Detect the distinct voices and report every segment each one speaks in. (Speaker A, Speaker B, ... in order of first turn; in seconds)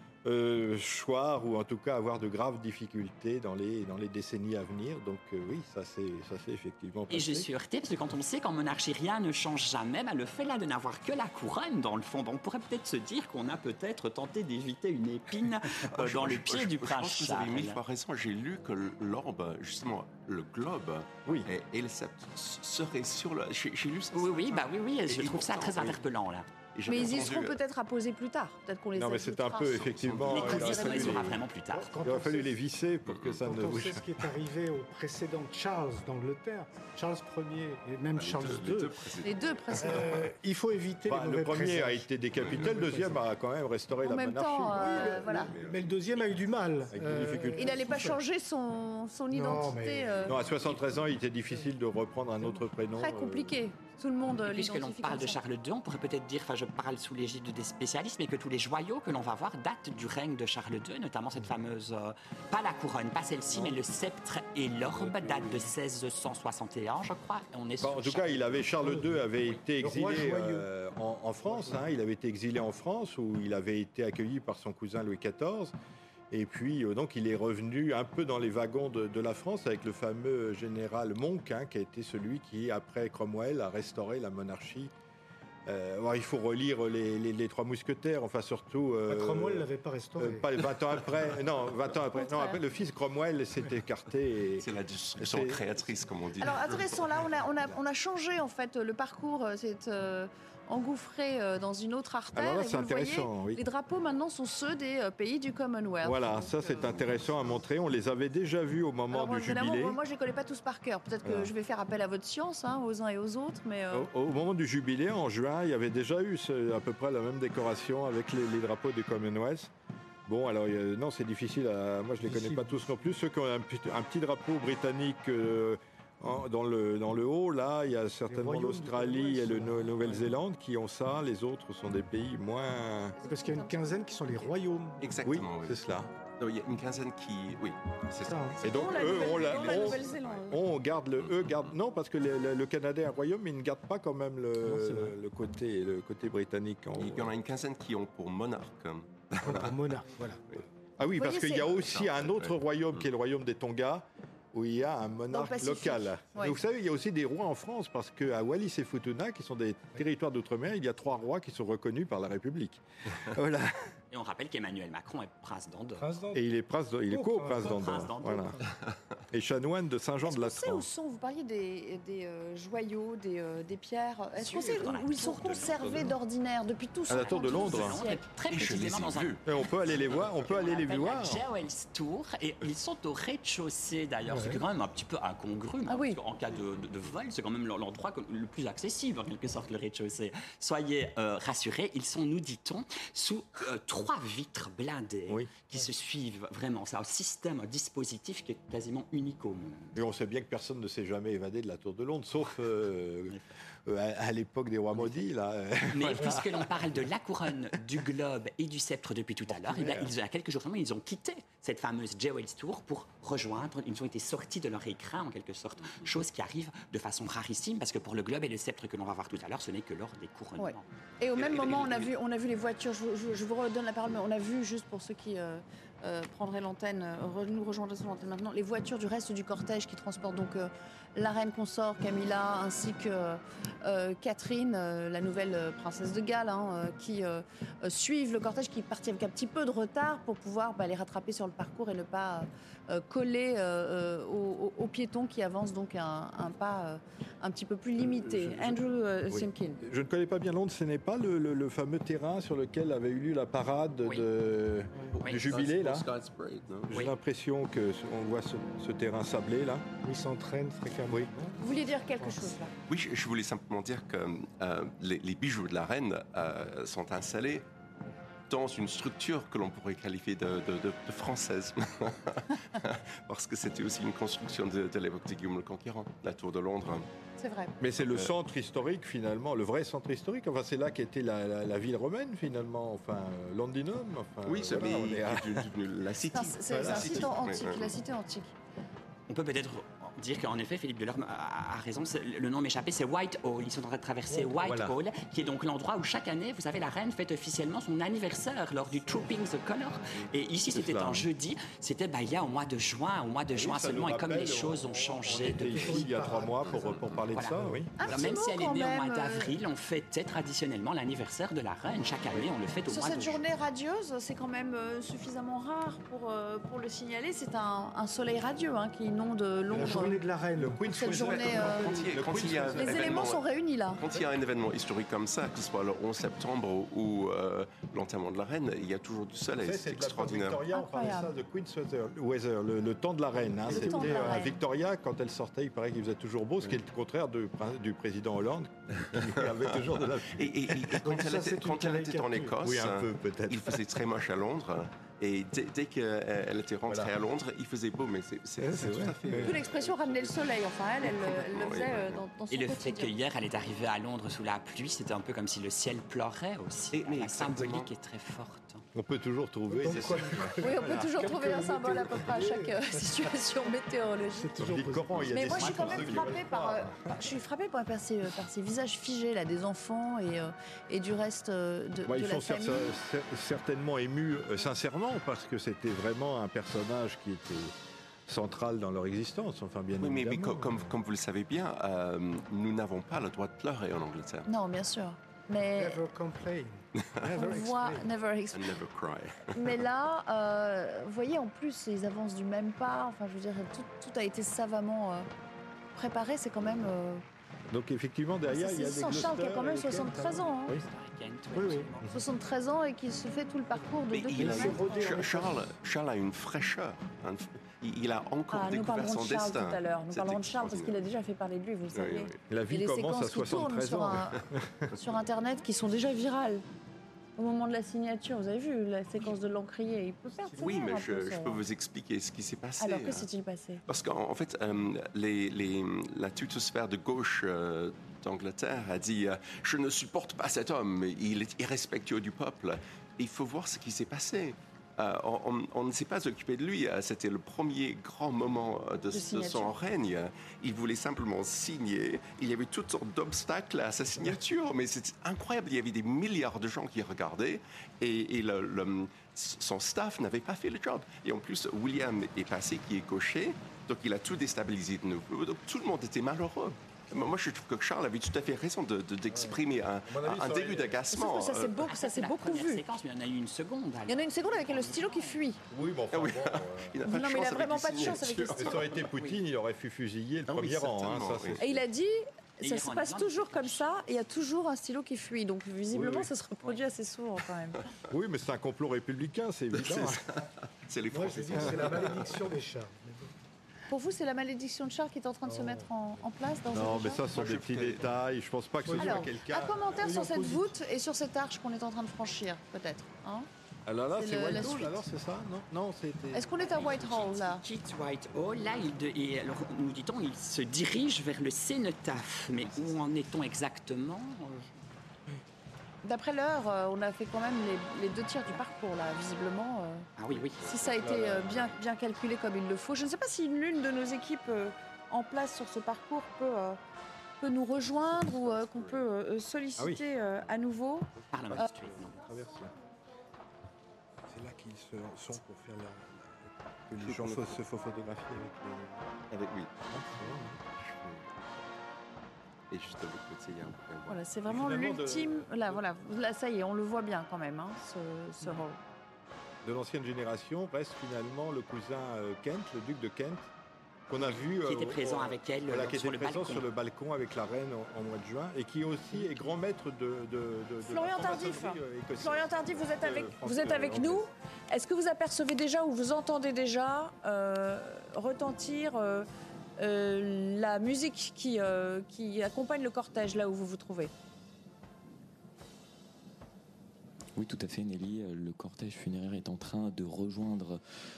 Speaker A: 0.2-7.5, 21.2-21.5, 28.9-31.4, 32.0-34.0, 39.8-40.3, 41.1-45.5, 46.9-47.8, 50.2-53.6, 63.5-63.8, 64.9-65.3, 67.8-75.7, 76.3-84.9, 85.7-95.6, 102.3-103.6, 106.0-110.0, 111.2-111.5, 113.9-119.7, 120.2-133.2, 135.2-136.1, 138.6-147.3, 151.0-163.7, 166.3-168.6, 169.3-170.9, 177.1-178.0, 179.4-181.4, 199.9-206.8, 209.5-210.1, 248.0-256.1, 256.9-259.8, 277.8-285.7, 286.7-287.4, 294.6-294.9, 300.7-301.3, 303.5-308.0, 320.6-323.2, 329.6-341.2, 342.6-343.9, 348.6-349.6, 358.9-361.1, 364.6-367.1, 372.1-377.7, 378.3-380.9, 397.7-400.8, 412.5-414.9, 459.3-461.0, 465.7-467.0, 468.6-471.8, 475.9-476.3, 478.1-480.2, 481.5-482.1, 486.7-489.9, 493.9-496.9, 510.9-511.6, 519.8-520.0, 521.5-522.7, 524.3-529.0, 529.9-530.6, 534.5-535.8, 539.6-543.5, 544.1-554.3
Speaker B: 7.1-17.8, 24.1-26.5, 30.2-31.9, 54.3-68.7, 164.1-166.1, 167.6-168.5, 174.3-176.1, 177.1-179.4, 180.3-200.0, 204.9-205.2, 205.9-220.8, 255.2-255.5, 289.3-306.1, 307.3-313.4, 352.5-358.8, 400.7-402.1, 461.8-465.3, 472.6-474.1, 496.6-504.7, 510.2-510.7, 521.3-522.2, 544.6-546.6
Speaker C: 15.9-26.0, 26.7-27.6, 30.0-30.9, 33.1-33.4, 38.1-40.1, 42.3-42.6, 45.0-46.2, 94.6-97.4, 135.0-135.8, 136.4-140.5, 141.2-141.7, 147.0-149.8, 151.8-153.0, 178.5-179.4, 221.3-222.1, 255.1-256.9, 262.9-267.6, 268.5-277.1, 278.0-278.3, 284.4-288.0, 306.6-307.3, 321.2-330.6, 339.1-352.2, 356.9-357.9, 380.0-384.5, 388.5-389.8, 404.1-411.0, 411.9-412.4, 414.9-415.3, 420.6-423.3, 423.9-461.8, 466.1-469.4, 470.5-471.6, 479.7-482.4, 487.3-488.1, 510.5-511.7, 517.8-519.1, 527.0-527.6, 529.3-531.3, 532.7-534.2
Speaker D: 26.9-31.3, 39.2-40.3, 44.0-45.5, 47.5-50.4, 53.0-55.4, 92.1-92.6, 96.4-107.1, 109.1-114.1, 133.2-134.5, 138.6-140.6, 151.1-151.9, 155.3-156.6, 170.2-178.2, 185.9-186.2, 220.6-249.8, 261.6-262.7, 277.4-277.7, 286.3-288.5, 308.0-309.5, 312.9-320.2, 320.8-322.0, 322.8-324.0, 330.7-331.3, 333.7-334.6, 349.4-353.2, 360.6-364.6, 365.3-372.9, 384.5-386.0, 387.3-388.8, 389.5-395.3, 395.9-397.2, 398.5-400.8, 402.1-405.3, 408.5-414.4, 415.0-416.6, 417.4-421.6, 422.8-423.8, 439.1-439.7, 461.1-462.8, 464.1-465.6, 467.0-469.0, 471.6-477.8, 483.9-487.2, 488.9-493.5, 494.1-495.0, 496.3-497.6, 506.0-510.1, 510.7-516.8, 517.4-521.7, 534.1-538.8, 550.8-559.3, 559.8-564.1
Speaker E: 31.7-32.6, 33.4-39.1, 39.8-43.2, 44.8-48.2, 49.3-50.7, 65.0-65.6, 68.8-70.7, 71.4-71.9, 89.1-90.5, 122.2-123.1, 128.3-130.3, 133.2-135.1, 138.3-138.6, 144.6-145.2, 149.4-150.4, 166.0-166.4, 167.1-168.2, 184.2-184.6, 260.0-261.6, 262.2-262.6, 298.9-299.3, 305.5-306.8, 319.7-321.3, 333.3-334.4, 341.0-342.6, 359.7-363.7, 364.3-366.4, 385.7-388.1, 399.8-400.5, 401.5-401.9, 403.7-405.8, 420.3-420.6, 481.1-483.3, 485.4-485.9, 488.8-490.8, 549.1-549.5
Speaker F: 567.4-570.8